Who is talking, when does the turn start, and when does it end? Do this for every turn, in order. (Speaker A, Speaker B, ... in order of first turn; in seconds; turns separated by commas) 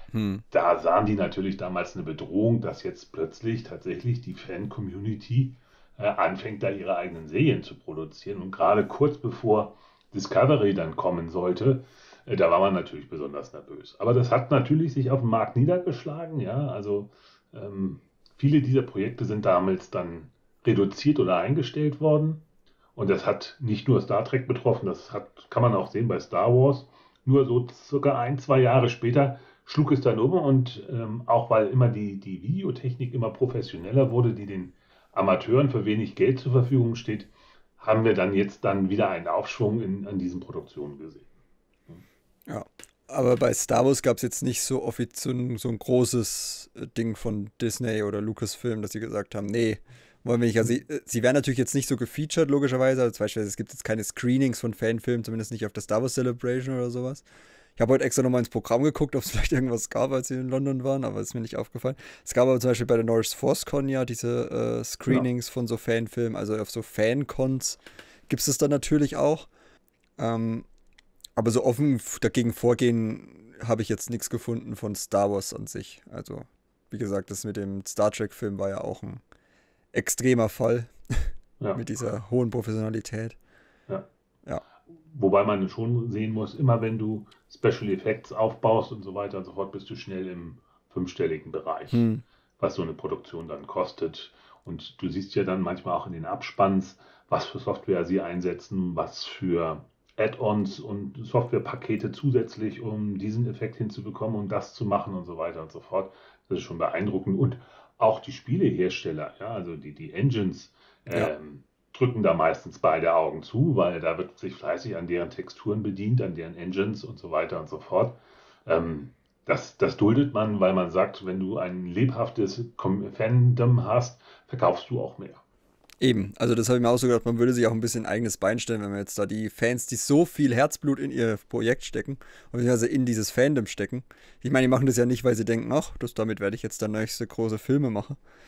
Speaker A: 0.1-0.4, Speaker B: 0.5-22.4, Speaker B: 22.9-41.2, Speaker A: 42.5-57.2, Speaker A: 57.8-69.5, Speaker A: 70.2-70.7, Speaker A: 71.4-79.2, Speaker A: 79.9-83.3, Speaker B: 85.1-92.1, Speaker A: 91.9-92.2, Speaker B: 92.6-125.4, Speaker A: 126.0-138.2